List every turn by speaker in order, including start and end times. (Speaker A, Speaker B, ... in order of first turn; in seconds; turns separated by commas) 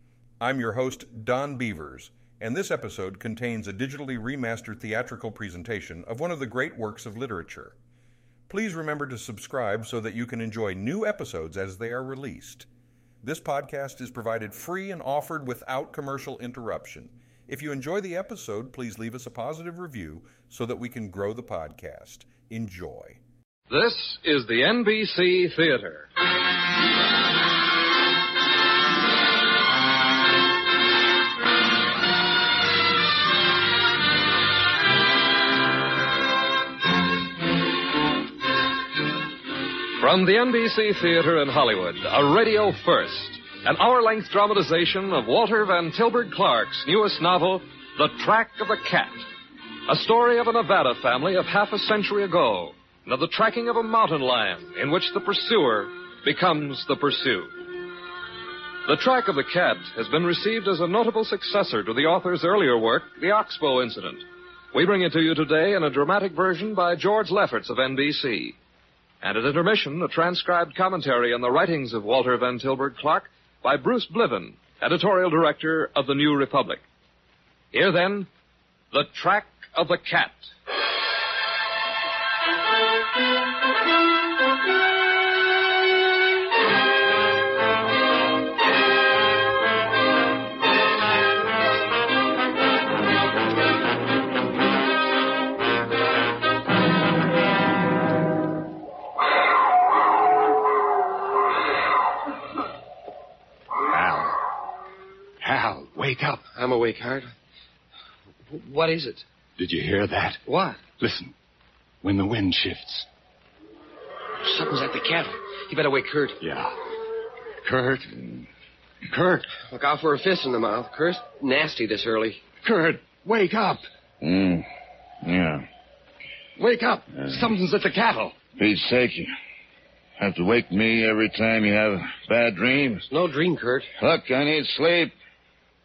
Speaker A: 0.4-7.7, Speaker A: 8.5-12.7, Speaker A: 13.2-23.2, Speaker B: 23.7-26.1, Speaker B: 40.0-49.3, Speaker B: 49.9-57.6, Speaker B: 58.8-68.6, Speaker B: 69.2-76.8, Speaker B: 77.7-78.3, Speaker B: 78.9-80.5, Speaker C: 103.8-104.4, Speaker C: 105.4-106.4, Speaker D: 106.5-107.3, Speaker D: 108.5-109.2, Speaker C: 109.6-111.3, Speaker D: 110.5-110.8, Speaker C: 112.0-113.1, Speaker D: 114.4-116.4, Speaker C: 116.4-116.7, Speaker C: 117.6-118.1, Speaker C: 119.1-119.4, Speaker D: 119.5-122.5, Speaker C: 122.6-123.8, Speaker E: 124.2-124.7, Speaker E: 125.2-125.7, Speaker C: 126.6-128.3, Speaker E: 128.6-129.3, Speaker E: 130.2-133.1, Speaker D: 133.1-133.9, Speaker E: 134.0-135.1